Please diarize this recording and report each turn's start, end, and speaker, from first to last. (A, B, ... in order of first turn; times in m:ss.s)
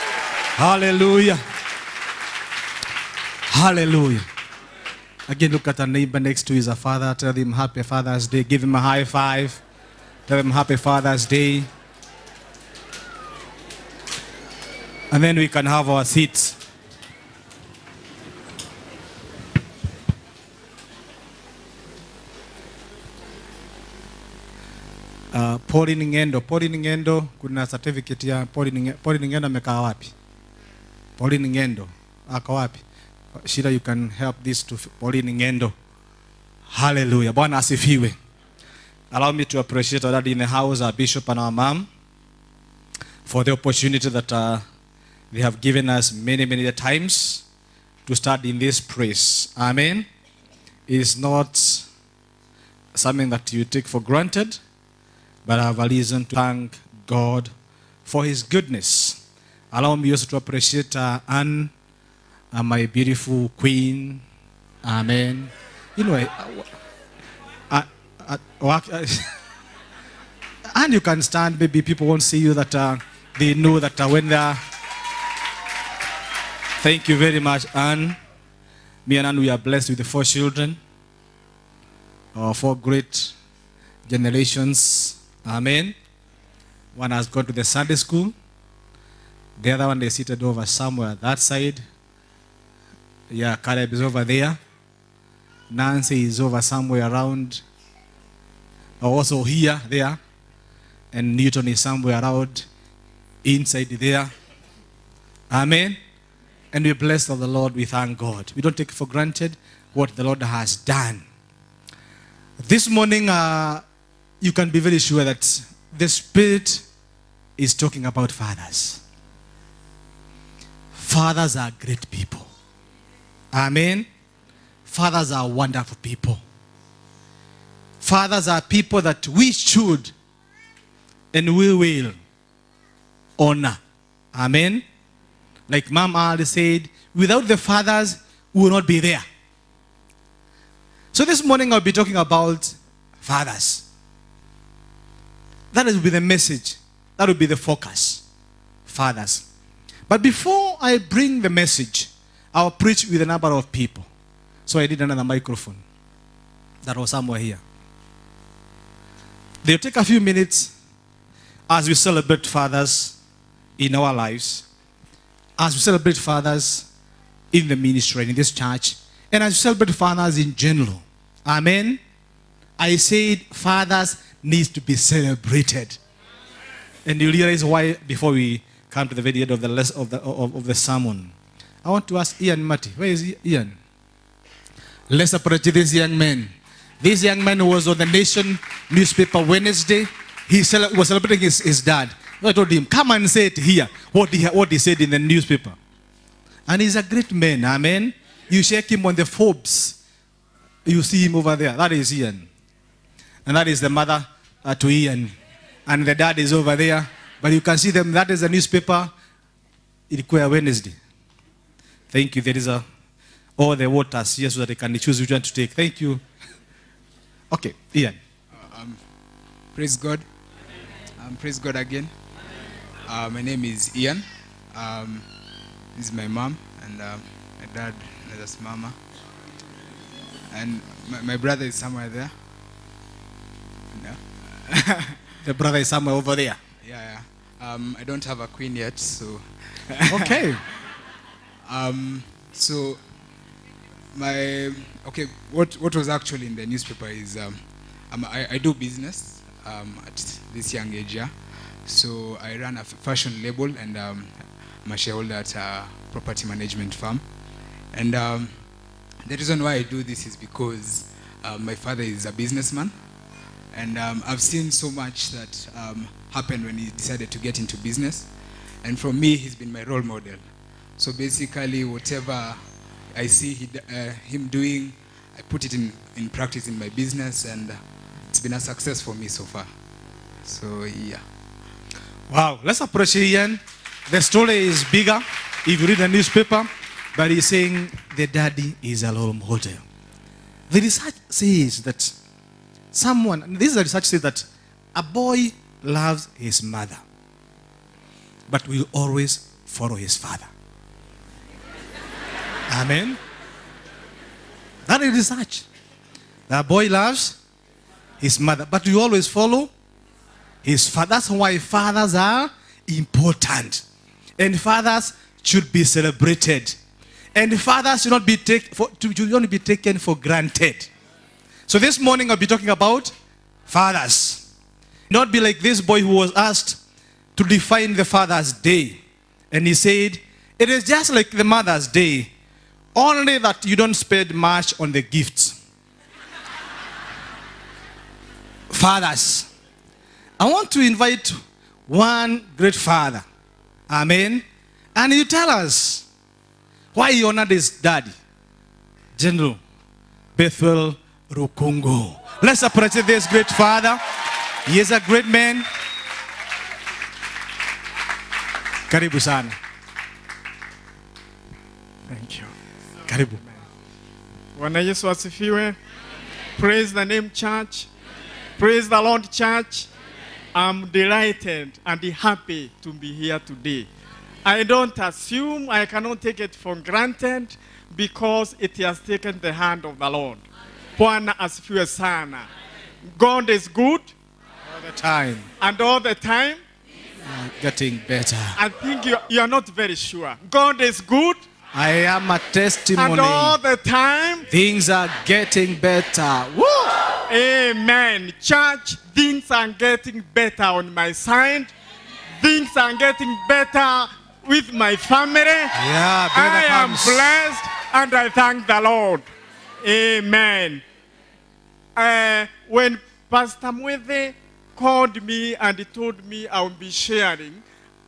0:00.6-0:01.4 A
0:03.5-0:04.2 A
0:05.3-0:09.6 A
0:10.3-0:11.7 A
0:15.1-0:16.6 A
0:25.3-0:30.1 A
0:31.2-0:32.8 A
0:33.4-0:35.7 A
0:36.7-0:38.2 A
0:39.1-0:41.9 A
0:43.2-0:44.6 A
0:45.3-0:47.4 A
0:48.0-0:50.1 A
0:50.9-0:51.9 A
0:52.9-0:54.6 A
0:55.4-0:57.5 A
0:58.0-0:59.2 A
0:59.7-1:01.7 A
1:02.5-1:04.2 A
1:04.8-1:06.7 A
1:07.7-1:09.3 A
1:10.7-1:14.6 A
1:16.8-1:18.2 A
1:19.0-1:20.8 A
1:22.3-1:23.3 A
1:24.1-1:25.9 A
1:27.0-1:28.3 A
1:29.6-1:31.8 A
1:33.3-1:34.6 A
1:35.7-1:37.6 A
1:39.0-1:40.2 A
1:41.1-1:42.6 A
1:43.4-1:44.3 A
1:45.5-1:46.0 A
1:46.7-1:51.2 A
1:52.6-1:53.8 A
1:54.4-1:56.8 A
1:57.6-1:59.0 A
2:00.9-2:02.5 A
2:03.5-2:04.1 A
2:04.9-2:06.4 A
2:08.0-2:10.1 A
2:11.3-2:12.1 A
2:13.4-2:13.8 A
2:14.3-2:14.8 A
2:15.7-2:19.2 A
2:21.1-2:23.8 A
2:25.7-2:28.2 A
2:28.9-2:29.4 A
2:30.1-2:34.1 A
2:34.7-2:35.8 A
2:36.8-2:37.6 A
2:39.6-2:40.7 A
2:41.7-2:43.2 A
2:43.8-2:44.6 A
2:45.6-2:46.9 A
2:47.5-2:52.0 A
2:52.8-2:56.0 A
2:57.0-3:01.3 A
3:01.8-3:03.7 A
3:05.1-3:15.8 A
3:16.7-3:20.0 A
3:20.8-3:22.4 A
3:23.4-3:25.3 A
3:25.9-3:29.1 A
3:30.1-3:31.0 A
3:32.1-3:32.8 A
3:33.6-3:36.2 A
3:37.5-3:38.2 A
3:38.5-3:39.0 B
3:39.7-3:40.2 B
3:41.2-3:42.1 B
3:43.1-3:45.3 B
3:45.9-3:49.0 B
3:50.5-3:52.3 B
3:53.9-3:55.2 B
3:55.4-3:56.6 A
3:56.8-4:00.3 B
4:00.1-4:00.6 A
4:01.6-4:03.0 B
4:04.1-4:17.2 B
4:17.9-4:18.6 B
4:19.2-4:22.9 B
4:23.7-4:39.7 B
4:40.4-4:41.2 B
4:42.3-4:49.8 A
4:50.7-4:52.1 A
4:52.9-4:57.0 A
4:58.5-5:00.5 A
5:02.7-5:03.2 A
5:04.9-5:05.6 A
5:06.5-5:07.4 A
5:08.2-5:09.7 A
5:10.6-5:13.8 A
5:14.4-5:16.8 A
5:17.3-5:20.9 A
5:21.7-5:23.1 A
5:23.7-5:24.4 A
5:25.1-5:26.8 A
5:27.4-5:29.0 A
5:29.5-5:32.3 A
5:32.9-5:35.5 A
5:38.7-5:39.5 A
5:40.4-5:41.4 A
5:41.9-5:43.2 A
5:43.9-5:44.4 A
5:45.0-5:46.0 A
5:46.9-5:48.1 A
5:49.2-5:49.6 A
5:50.4-5:54.0 A
5:54.6-5:55.6 A
5:58.9-5:59.5 A
6:02.1-6:02.5 C
6:03.1-6:03.4 A
6:04.6-6:05.8 C
6:06.6-6:07.9 C
6:08.6-6:09.9 C
6:10.5-6:13.9 C
6:14.4-6:20.4 C
6:21.0-6:22.5 C
6:23.2-6:24.1 C
6:24.7-6:25.5 A
6:25.6-6:26.6 C
6:27.2-6:28.6 A
6:28.6-6:31.4 C
6:31.7-6:33.6 A
6:33.0-6:34.5 C
6:34.5-6:36.9 A
6:37.3-6:41.7 C
6:42.4-6:45.7 C
6:45.7-6:47.4 A
6:46.3-6:49.2 C
6:49.8-6:50.8 C
6:52.0-6:57.6 C